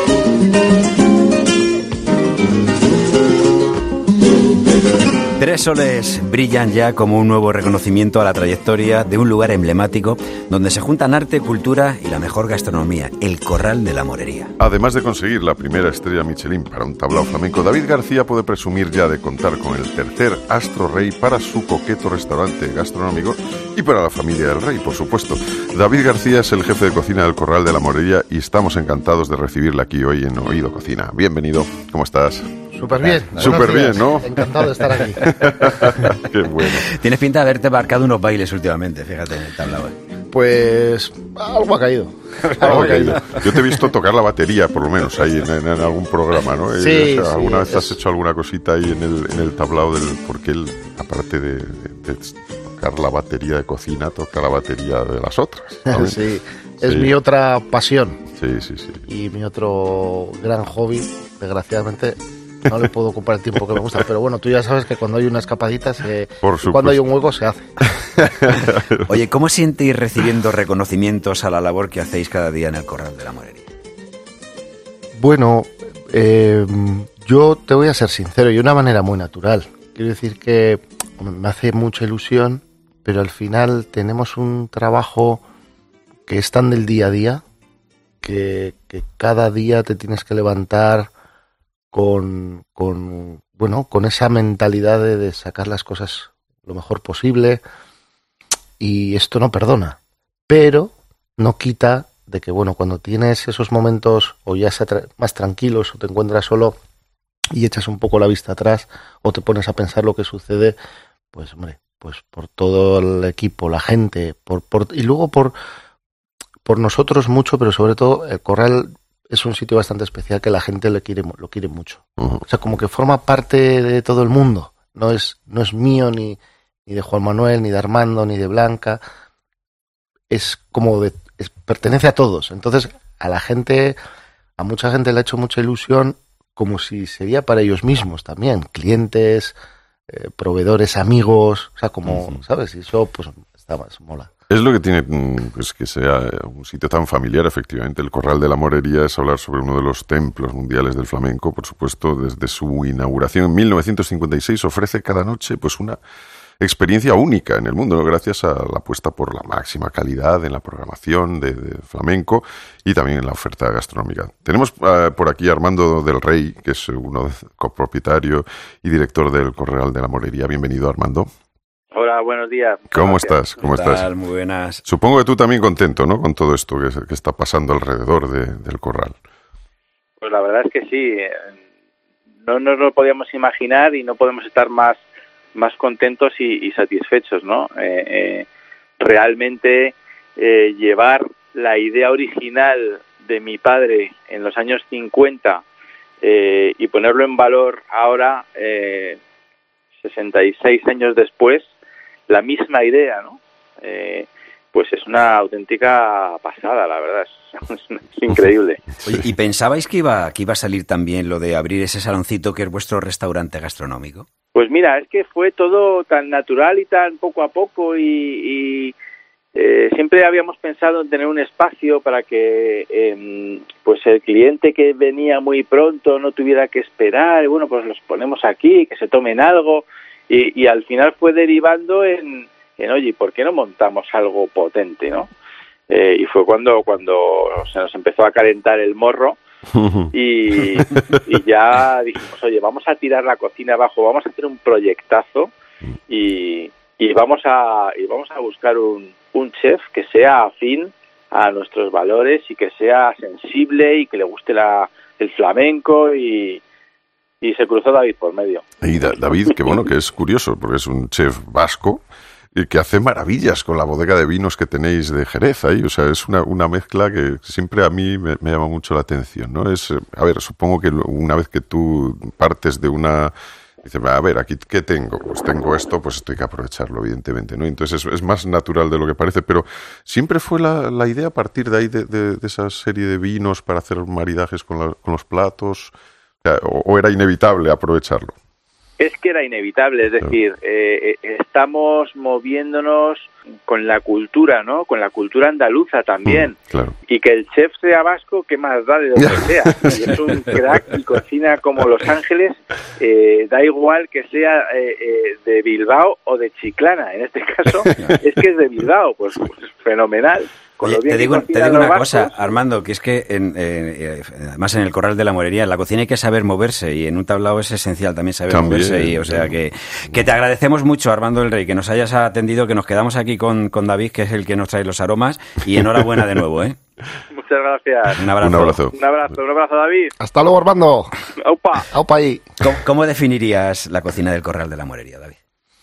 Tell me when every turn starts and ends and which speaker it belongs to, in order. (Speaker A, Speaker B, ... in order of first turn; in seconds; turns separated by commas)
Speaker A: 5.4-14.5, Speaker B: 14.6-32.5, Speaker C: 32.7-35.3, Speaker A: 33.0-33.7, Speaker B: 33.3-34.5, Speaker A: 34.9-40.0, Speaker B: 35.2-36.9, Speaker C: 40.3-43.2, Speaker A: 42.4-43.5, Speaker B: 42.6-56.2, Speaker C: 46.7-48.0, Speaker C: 55.9-58.2, Speaker B: 56.8-57.1, Speaker B: 58.4-59.0, Speaker C: 59.1-67.7, Speaker B: 66.4-67.0, Speaker B: 68.2-69.0, Speaker A: 69.0-73.7, Speaker C: 75.1-85.4, Speaker C: 86.3-87.4, Speaker C: 88.2-91.1, Speaker C: 91.9-97.6, Speaker C: 98.8-100.0, Speaker C: 100.5-106.7, Speaker C: 107.5-110.8, Speaker C: 111.3-115.5, Speaker C: 116.6-129.0, Speaker C: 130.3-134.0, Speaker C: 134.6-139.5, Speaker C: 140.1-144.3, Speaker B: 142.1-142.4, Speaker B: 144.5-156.0, Speaker B: 156.6-171.3, Speaker D: 171.9-173.3, Speaker B: 172.9-174.1, Speaker A: 173.6-174.8, Speaker B: 174.8-179.2, Speaker D: 180.2-181.5, Speaker D: 182.4-185.0, Speaker D: 185.5-188.5, Speaker D: 189.0-195.6, Speaker D: 196.2-199.2, Speaker D: 200.0-201.7, Speaker D: 202.3-208.8, Speaker B: 209.0-209.3, Speaker A: 209.0-214.3, Speaker D: 214.5-218.9, Speaker D: 219.5-235.3, Speaker D: 235.9-239.4, Speaker B: 239.7-240.1, Speaker D: 240.1-245.5, Speaker D: 246.1-256.6, Speaker D: 257.4-258.6, Speaker B: 258.8-262.0, Speaker B: 262.5-288.3, Speaker D: 289.0-296.6, Speaker B: 296.2-296.9, Speaker D: 297.1-312.6, Speaker B: 299.2-300.3, Speaker A: 310.8-326.8, Speaker B: 318.5-319.6, Speaker D: 327.3-328.2, Speaker A: 328.1-328.8, Speaker B: 328.3-328.9, Speaker D: 328.9-330.1, Speaker C: 330.2-331.1, Speaker D: 331.4-331.9, Speaker C: 331.8-332.5, Speaker A: 332.6-335.4